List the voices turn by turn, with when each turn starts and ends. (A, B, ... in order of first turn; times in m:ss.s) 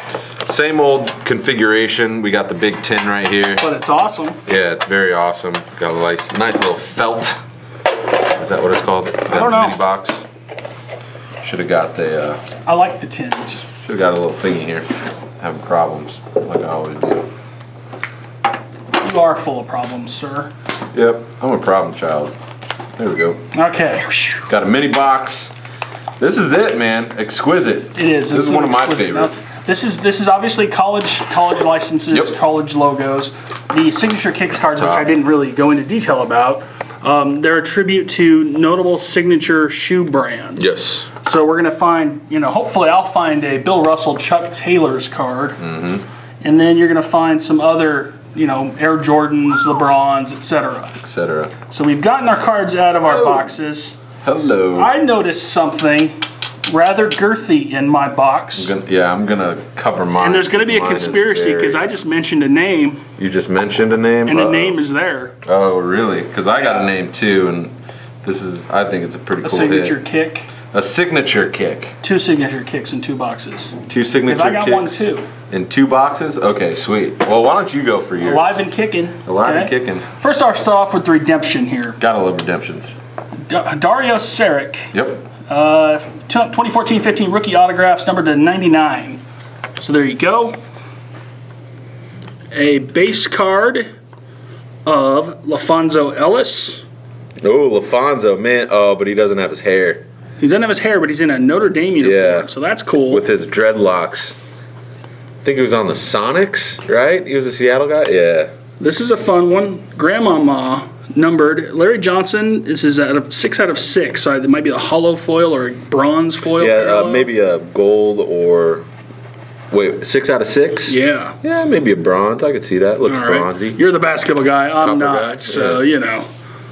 0:00.4-0:03.7 A
0:03.6-0:04.4 B
0:04.5-0:07.4 A
0:08.4-0:10.2 A
0:09.3-0:09.8 B
0:11.4-0:12.4 A
0:12.6-0:13.7 B
0:13.8-0:14.9 A
0:15.4-0:17.3 A
0:19.0-0:20.5 B
0:20.9-0:22.3 A
0:23.0-0:23.4 A
0:23.5-0:24.5 B
0:24.5-0:25.5 A
0:26.2-0:29.3 A
0:28.0-0:45.6 B
0:34.8-0:35.1 A
0:40.6-0:41.1 A
0:45.6-0:46.0 A
0:46.4-0:51.0 B
0:51.0-0:51.5 A
0:51.7-0:54.0 B
0:53.0-0:53.5 A
0:54.2-0:54.9 A
0:54.8-0:56.1 B
0:56.7-0:58.7 B
0:58.6-1:01.9 A
1:00.2-1:03.1 B
1:03.2-1:04.8 A
1:04.2-1:05.3 B
1:05.4-1:10.0 A
1:06.6-1:06.9 B
1:09.4-1:10.5 B
1:10.7-1:12.0 A
1:12.0-1:15.3 B
1:13.9-1:18.6 A
1:18.2-1:22.0 B
1:19.3-1:20.1 A
1:22.0-1:23.0 A
1:23.4-1:24.9 B
1:24.9-1:25.3 A
1:25.5-1:29.2 B
1:29.8-1:30.6 B
1:32.5-1:33.9 B
1:34.9-1:36.8 B
1:37.4-1:40.0 A
1:40.4-1:43.3 B
1:42.0-1:42.5 A
1:43.1-1:44.4 A
1:45.4-1:48.5 A
1:48.8-1:57.3 B
1:56.6-1:58.9 A
1:59.7-2:03.8 A
2:00.9-2:01.4 B
2:03.0-2:06.3 B
2:04.8-2:05.8 A